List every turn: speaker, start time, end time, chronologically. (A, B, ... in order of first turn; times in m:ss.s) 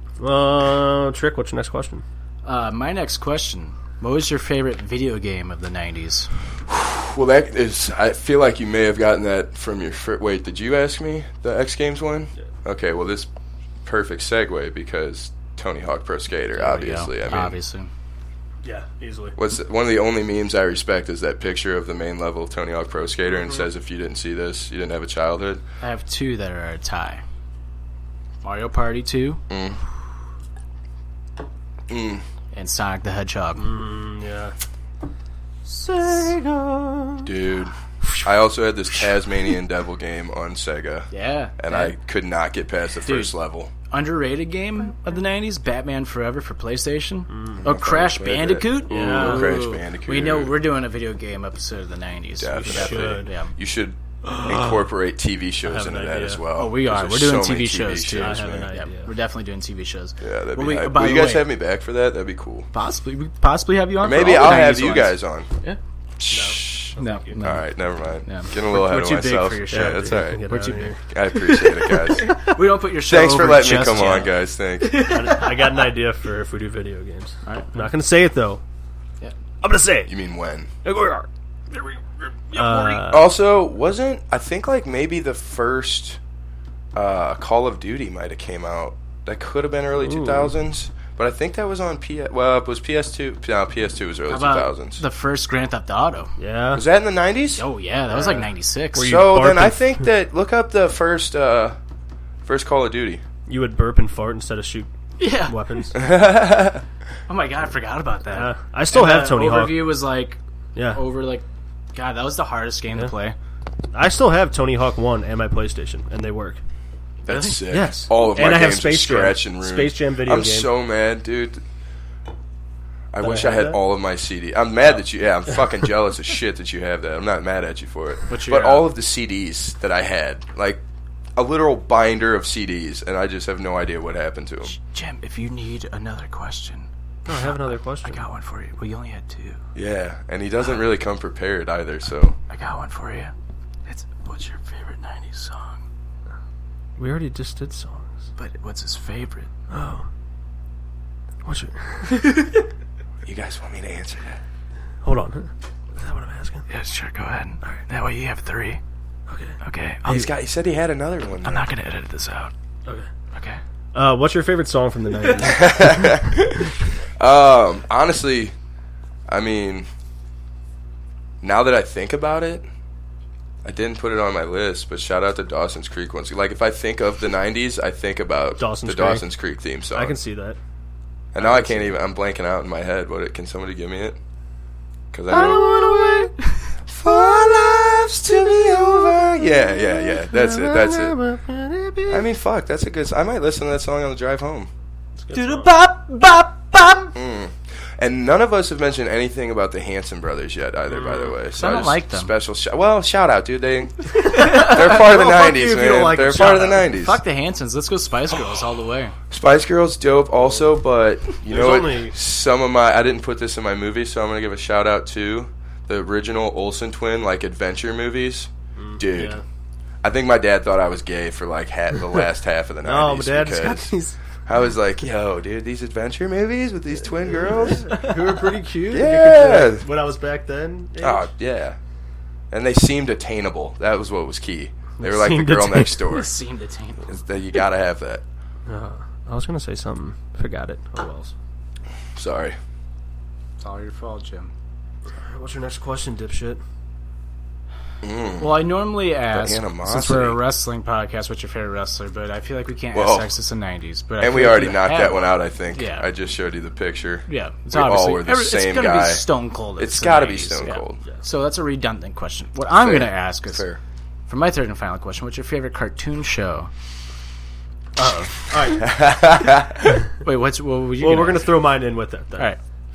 0:00.2-0:02.0 A
0:02.4-0:06.3 B
0:06.7-0:13.3 C
0:13.8-0:17.6 C
0:16.6-0:17.9 B
0:18.6-0:19.4 A
0:19.4-0:25.6 C
0:23.3-0:23.7 A
0:25.8-0:27.2 B
0:28.4-0:29.4 B
0:29.5-0:29.8 C
0:31.9-0:32.2 C
0:32.5-0:33.7 B
0:33.6-0:34.5 A
0:35.7-0:37.3 A
0:37.2-0:43.7 C
0:41.1-0:42.0 B
0:43.1-0:43.3 B
0:43.9-0:53.5 B
0:47.3-0:47.6 A
0:47.6-0:50.6 C
0:48.9-0:49.6 A
0:52.4-0:58.7 C
0:52.6-0:53.3 A
0:54.2-0:54.9 A
0:55.6-0:56.4 A
0:56.5-1:01.5 B
0:58.2-0:59.1 A
1:00.2-1:02.7 C
1:02.7-1:05.8 B
1:04.0-1:05.5 C
1:06.2-1:10.5 C
1:06.3-1:07.4 A
1:07.0-1:07.7 B
1:08.2-1:10.9 B
1:09.7-1:11.0 A
1:11.1-1:12.4 C
1:11.9-1:14.3 B
1:13.0-1:15.1 C
1:14.8-1:15.5 B
1:15.0-1:18.6 A
1:17.5-1:17.9 B
1:19.6-1:20.1 A
1:20.1-1:20.7 C
1:20.8-1:21.3 A
1:22.5-1:23.1 B
1:22.5-1:23.3 A
1:23.1-1:26.2 C
1:27.0-1:35.0 C
1:30.0-1:30.5 A
1:34.3-1:36.3 B
1:36.4-1:36.8 A
1:36.7-1:38.4 C
1:37.6-1:39.2 B
1:39.0-1:39.9 A
1:39.0-1:41.8 C
1:42.4-1:43.2 C
1:43.5-1:44.9 A
1:45.2-1:45.6 B
1:45.4-1:46.0 A
1:46.0-1:46.8 C
1:47.3-1:53.4 B
1:48.3-1:49.9 A
1:50.8-1:51.0 A
1:53.9-1:56.6 A
1:57.3-1:58.0 B
1:57.3-2:01.6 C
1:57.7-2:00.7 A
2:03.1-2:10.8 C
2:03.2-2:03.8 A
2:08.3-2:08.9 B
2:11.4-2:14.7 C
2:14.7-2:19.6 B
2:17.3-2:18.2 A
2:19.8-2:22.4 C
2:22.5-2:23.3 B
2:23.9-2:25.8 B
2:27.0-2:28.3 A
2:28.4-2:29.5 B
2:29.7-2:30.1 A
2:31.4-2:32.4 A
2:32.2-2:32.5 B
2:33.3-2:34.4 C
2:35.0-2:36.6 A
2:36.7-2:38.8 B
2:39.3-2:39.6 A
2:39.6-2:40.3 B
2:40.1-2:41.7 C
2:41.4-2:42.5 B
2:43.3-2:43.6 B
2:43.9-2:46.2 A
2:45.4-2:48.5 C
2:49.3-2:49.9 C
2:51.4-2:52.7 C
2:53.6-3:00.2 C
2:58.6-2:59.2 A
2:59.9-3:00.6 A
3:01.3-3:04.2 C
3:01.4-3:01.9 A
3:05.1-3:06.3 C
3:05.3-3:06.3 A
3:05.3-3:06.2 B
3:06.9-3:11.2 C
3:09.7-3:12.3 A
3:12.1-3:14.7 C
3:15.2-3:15.7 A
3:15.3-3:17.1 B
3:17.1-3:27.2 C
3:20.9-3:21.4 A
3:21.6-3:22.3 B
3:24.2-3:26.9 A
3:24.3-3:24.7 B
3:26.9-3:29.2 B
3:29.3-3:39.4 C
3:31.4-3:32.2 A
3:38.8-3:39.4 A
3:40.0-3:43.9 C
3:42.8-3:44.2 A
3:44.5-3:48.1 C
3:47.3-3:51.3 A
3:48.9-3:49.9 C
3:51.0-3:51.8 C
3:52.5-3:56.3 C
3:55.0-3:56.2 A
3:56.1-3:57.2 B
3:57.1-3:58.2 C
3:58.7-4:01.3 A
4:02.2-4:02.6 C
4:03.6-4:04.5 B
4:05.2-4:06.6 A
4:08.0-4:08.6 C
4:08.4-4:16.1 B
4:09.3-4:10.4 C
4:12.9-4:13.3 C
4:14.2-4:19.3 C
4:17.3-4:23.6 B
4:19.8-4:21.0 C
4:22.8-4:23.8 C
4:24.3-4:26.7 B
4:28.0-4:28.5 B
4:28.5-4:28.9 A
4:28.8-4:29.8 C
4:30.1-4:31.5 B
4:31.0-4:32.5 A